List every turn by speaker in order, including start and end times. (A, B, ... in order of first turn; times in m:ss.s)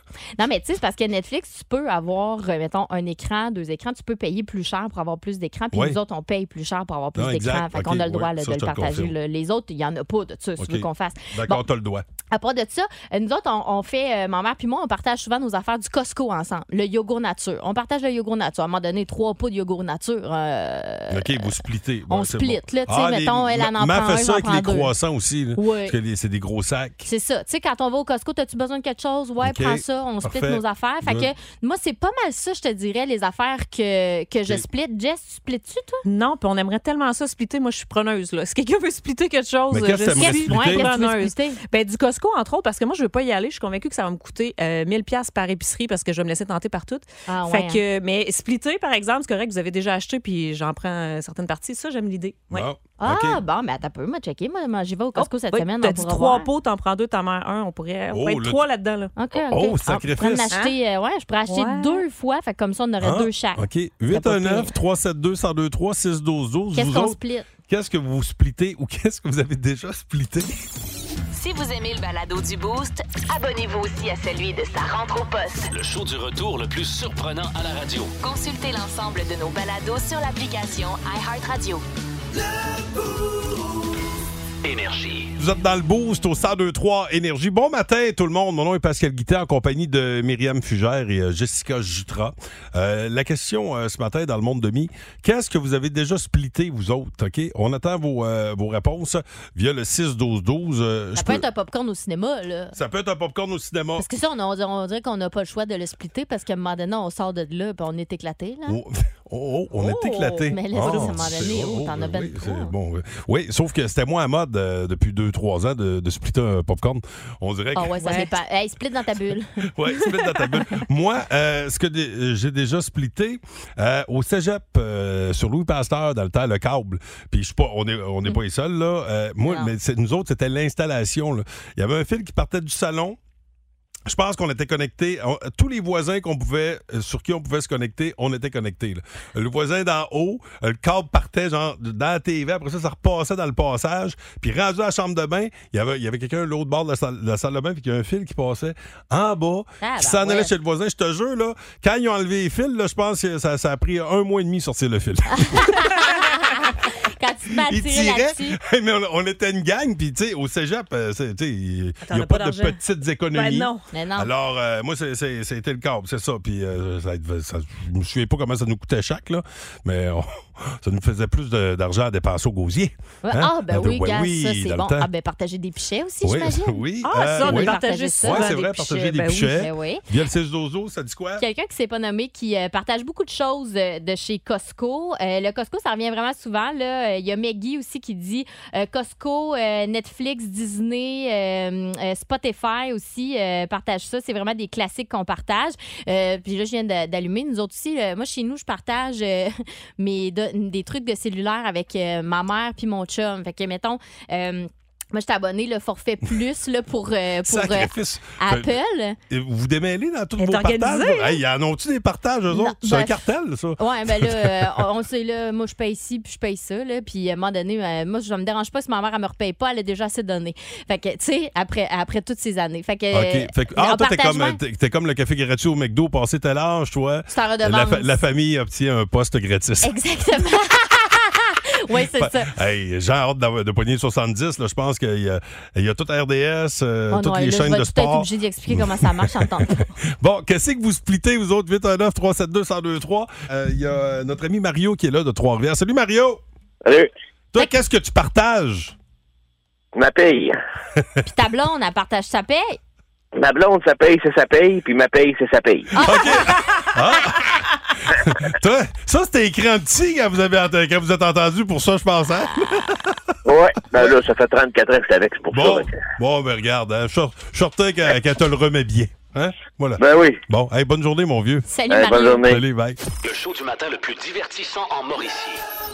0:00.4-0:11.6 A
0:05.7-0:06.0 B
0:07.2-0:09.1 B
0:10.6-0:12.0 B
0:12.3-0:21.5 A
0:21.1-0:27.1 B
0:22.1-0:24.9 A
0:25.6-0:26.0 A
0:27.0-0:36.0 A
0:29.4-0:31.3 B
0:36.0-0:52.7 C
0:39.7-0:40.9 B
0:40.2-0:41.6 A
0:47.3-0:47.8 A
0:52.5-0:53.4 B
0:53.0-0:56.5 A
0:55.2-0:59.1 C
0:58.1-0:58.6 B
0:59.2-1:04.7 A
0:59.3-1:00.5 B
1:01.5-1:02.0 C
1:03.0-1:10.5 B
1:06.8-1:07.5 A
1:11.3-1:15.7 D
1:15.7-1:18.2 E
1:18.2-1:21.8 D
1:24.6-1:25.3 E
1:25.4-1:41.4 B
1:41.2-1:42.8 A
1:42.8-1:44.1 B
1:44.0-1:48.8 A
1:48.7-1:58.0 B
1:49.8-1:52.7 A
1:57.8-1:59.5 A
1:58.0-1:58.3 C
1:59.7-2:13.2 B
2:09.4-2:09.7 A
2:14.1-2:36.2 B
2:29.8-2:30.5 A
2:35.4-2:38.6 A
2:37.6-2:55.1 B
2:42.0-2:42.8 C
2:43.3-2:43.9 C
2:43.9-2:44.3 A
2:53.2-3:00.1 A
2:56.2-3:01.4 B
2:57.0-2:59.7 C
3:01.4-3:29.2 A
3:27.4-3:28.7 B
3:29.3-3:34.8 B
3:30.4-3:31.4 C
3:32.5-3:33.2 A
3:33.8-3:44.6 A
3:43.1-3:49.9 B
3:47.3-3:48.1 A
3:49.8-3:52.5 A
3:52.0-4:06.4 B
3:57.1-3:59.9 A
4:07.5-4:08.9 B
4:10.0-4:10.6 F
4:11.2-4:12.8 A
4:13.4-4:15.9 F
4:16.0-4:16.6 A
4:16.0-4:23.2 B
4:22.6-4:22.8 A
4:23.5-4:26.0 F
4:25.5-4:31.7 B
4:30.0-4:30.4 F
4:31.7-4:32.5 A
4:31.9-4:32.6 F
4:32.4-4:33.0 B
4:33.2-4:35.6 E